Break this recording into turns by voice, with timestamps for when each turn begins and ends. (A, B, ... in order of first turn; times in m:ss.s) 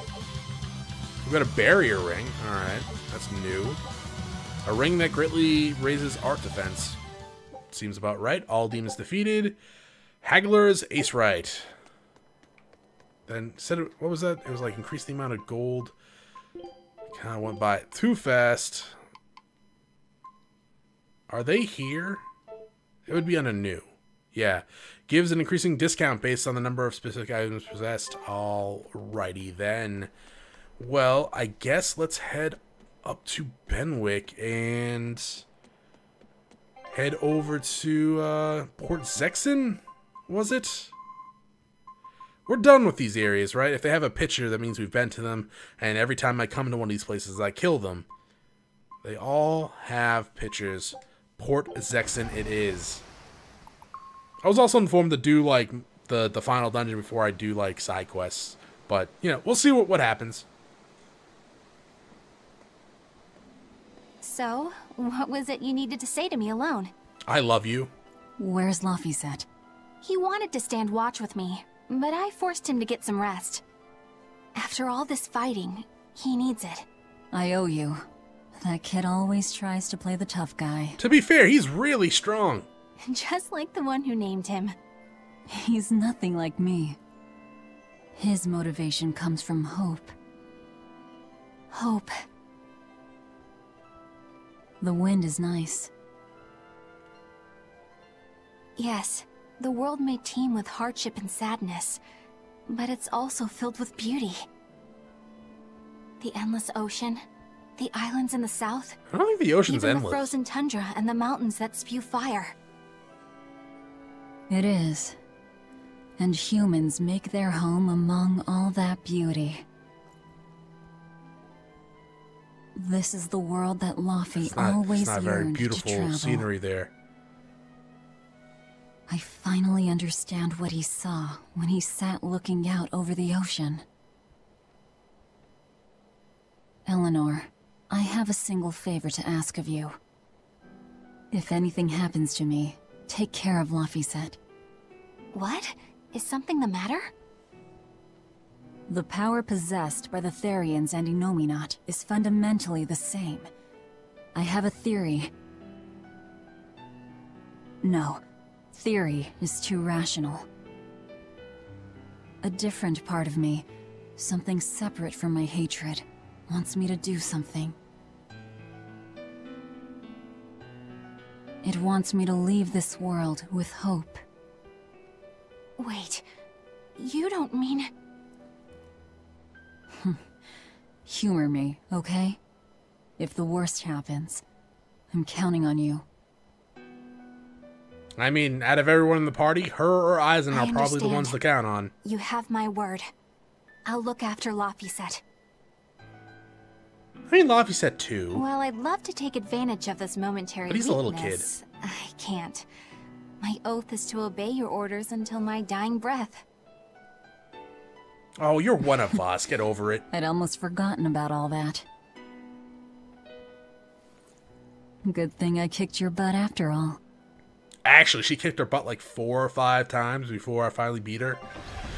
0:01.2-0:03.8 A
0:04.6-0:07.0 A
0:07.7-0:09.6 A
0:10.2-0:11.7 A
0:13.3-0:15.9 A
0:17.1-0:19.0 A
0:21.3-0:22.2 A
0:23.1-0:30.1 A
0:30.8-0:35.4 A
0:36.9-0:40.9 A
0:42.5-0:48.1 A
0:49.0-0:53.0 A
0:54.4-1:00.5 A
1:04.2-1:06.9 B
1:07.3-1:07.9 A
1:08.4-1:09.5 C
1:10.0-1:13.6 B
1:14.6-1:16.9 B
1:17.3-1:21.0 C
1:21.0-1:22.7 A
1:23.0-1:24.8 B
1:25.5-1:27.0 C
1:28.2-1:30.1 C
1:31.7-1:32.2 B
1:34.8-1:35.9 C
1:38.8-1:42.0 B
1:42.7-1:44.4 B
1:46.2-1:47.2 B
1:47.8-1:49.0 B
1:49.1-1:50.3 A
1:49.7-1:52.6 B
1:54.5-1:55.2 C
1:56.2-1:59.6 C
2:02.8-2:06.5 C
2:04.4-2:06.9 A
2:09.1-2:13.8 C
2:16.9-2:20.0 C
2:21.3-2:24.4 C
2:25.3-2:27.1 B
2:28.9-2:33.5 C
2:34.4-2:35.3 C
2:37.8-2:38.2 C
2:38.7-2:40.5 C
2:42.4-2:47.8 C
2:51.6-2:54.2 C
2:55.8-2:56.3 B
2:57.0-2:57.9 B
2:59.9-3:00.2 C
3:01.1-3:02.4 C
3:03.2-3:04.4 C
3:05.1-3:06.0 C
3:08.2-3:11.9 A
3:10.5-3:11.4 B
3:12.0-3:13.1 B
3:13.9-3:15.2 B
3:17.3-3:18.4 A
3:18.3-3:22.7 B
3:20.7-3:21.5 A
3:23.4-3:26.4 B
3:28.4-3:30.0 A
3:30.1-3:31.8 C
3:35.0-3:37.0 C
3:37.8-3:41.4 A